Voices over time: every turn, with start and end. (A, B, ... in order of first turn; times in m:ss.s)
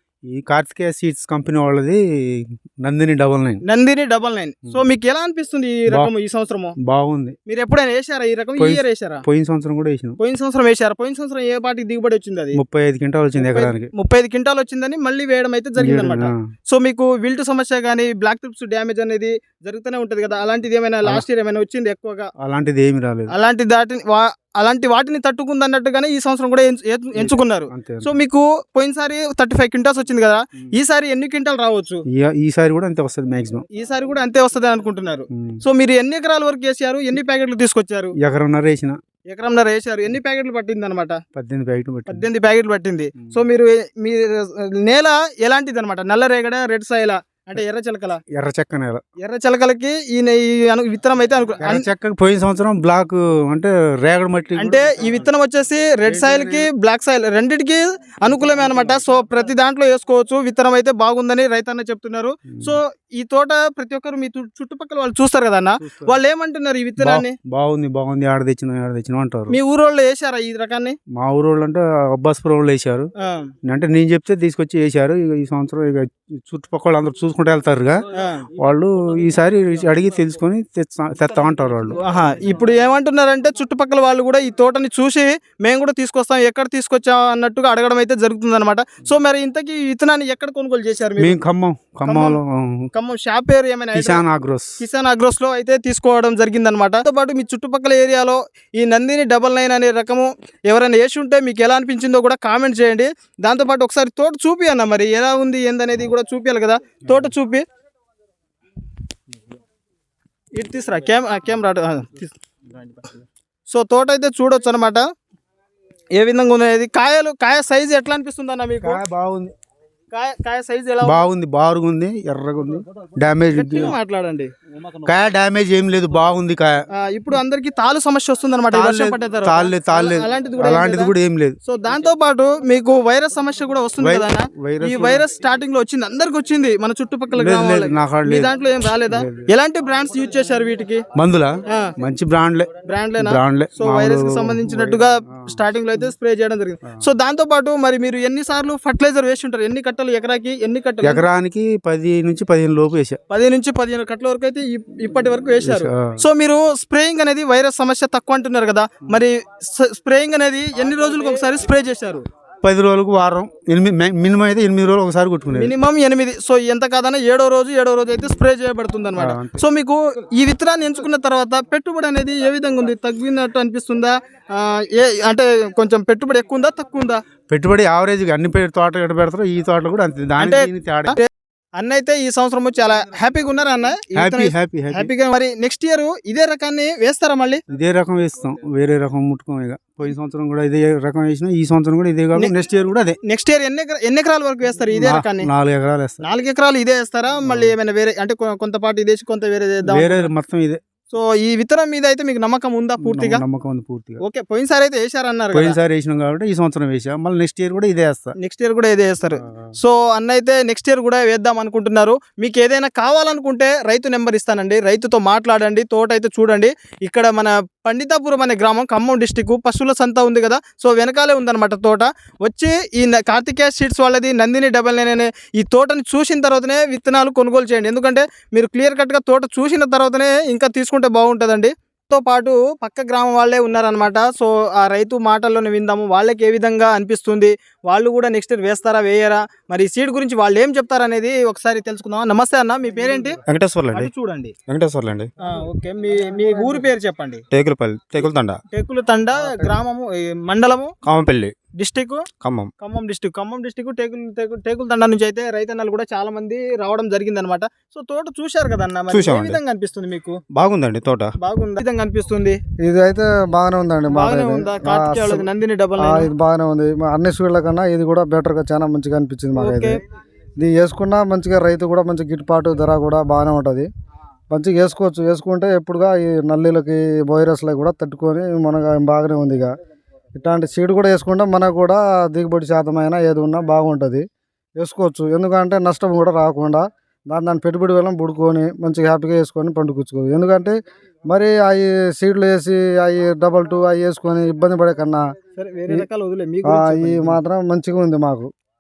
0:00.3-0:03.6 A
0:03.6-0:06.7 B
0:06.8-0:07.4 A
0:07.5-0:09.2 B
0:08.6-0:10.2 A
0:10.2-0:12.6 B
0:12.5-0:13.9 A
0:13.4-0:22.3 B
0:15.8-0:16.4 A
0:22.4-0:23.3 A
0:23.3-0:32.0 B
0:27.2-0:28.1 A
0:32.1-0:33.6 A
0:33.7-0:38.1 B
0:35.3-0:35.6 A
0:38.2-0:39.0 A
0:39.3-0:41.2 B
0:41.4-0:42.3 A
0:42.1-0:48.2 B
0:48.3-0:49.0 A
0:49.2-0:51.9 B
0:51.6-0:55.1 A
0:54.6-1:07.3 B
0:56.0-0:56.7 A
1:02.5-1:02.8 A
1:05.8-1:06.1 A
1:07.0-1:09.6 A
1:09.5-1:11.0 B
1:11.1-1:13.1 A
1:13.2-1:13.5 B
1:13.6-1:18.0 A
1:18.1-1:18.5 B
1:18.6-1:22.0 A
1:21.9-1:31.4 B
1:31.2-1:32.8 A
1:32.0-1:32.4 B
1:32.9-1:34.2 B
1:33.9-1:34.8 A
1:34.8-1:47.6 B
1:50.5-1:53.1 B
1:53.7-1:55.0 B
1:56.1-1:59.0 B
1:58.8-1:59.5 A
2:00.1-2:01.3 B
2:01.0-2:04.0 A
2:03.5-2:04.5 B
2:05.0-2:06.8 A
2:06.9-2:11.1 B
2:08.7-2:11.6 A
2:11.6-2:21.0 B
2:14.0-2:15.2 A
2:17.4-2:18.5 A
2:19.1-2:19.4 A
2:21.1-2:25.6 A
2:21.7-2:21.9 B
2:22.8-2:31.2 B
2:31.0-2:33.2 A
2:33.3-2:42.2 B
2:35.6-2:36.2 A
2:42.6-2:45.7 A
2:45.5-2:57.2 B
2:49.2-2:49.6 A
2:57.5-3:01.2 A
3:00.4-3:07.6 B
3:04.2-3:05.1 A
3:07.7-3:13.2 A
3:13.2-3:15.5 B
3:15.0-3:16.2 A
3:16.2-3:20.3 B
3:17.4-3:17.7 A
3:19.9-3:20.8 A
3:21.1-3:23.4 B
3:23.0-3:24.2 A
3:24.2-3:25.8 B
3:25.5-3:28.3 A
3:28.4-4:03.4 B
4:03.5-4:04.1 C
4:03.7-4:03.9 A
4:03.9-4:04.5 B
4:04.7-4:05.3 C
4:05.4-4:07.4 B
4:07.5-4:08.6 C
4:08.7-4:10.9 B
4:11.0-4:11.5 C
4:11.8-4:12.2 B
4:12.4-4:12.7 C
4:12.8-4:20.4 B
4:19.1-4:19.6 C
4:20.5-4:21.3 C
4:21.4-4:22.6 B
4:22.8-4:25.5 D
4:24.1-4:26.3 B
4:26.0-4:30.0 D
4:29.5-4:30.0 B
4:30.6-4:33.9 D
4:34.5-4:39.7 D
4:40.3-4:44.2 D
4:44.8-4:50.8 D
4:51.3-4:55.2 D
4:55.6-4:57.4 B
4:56.6-4:58.5 D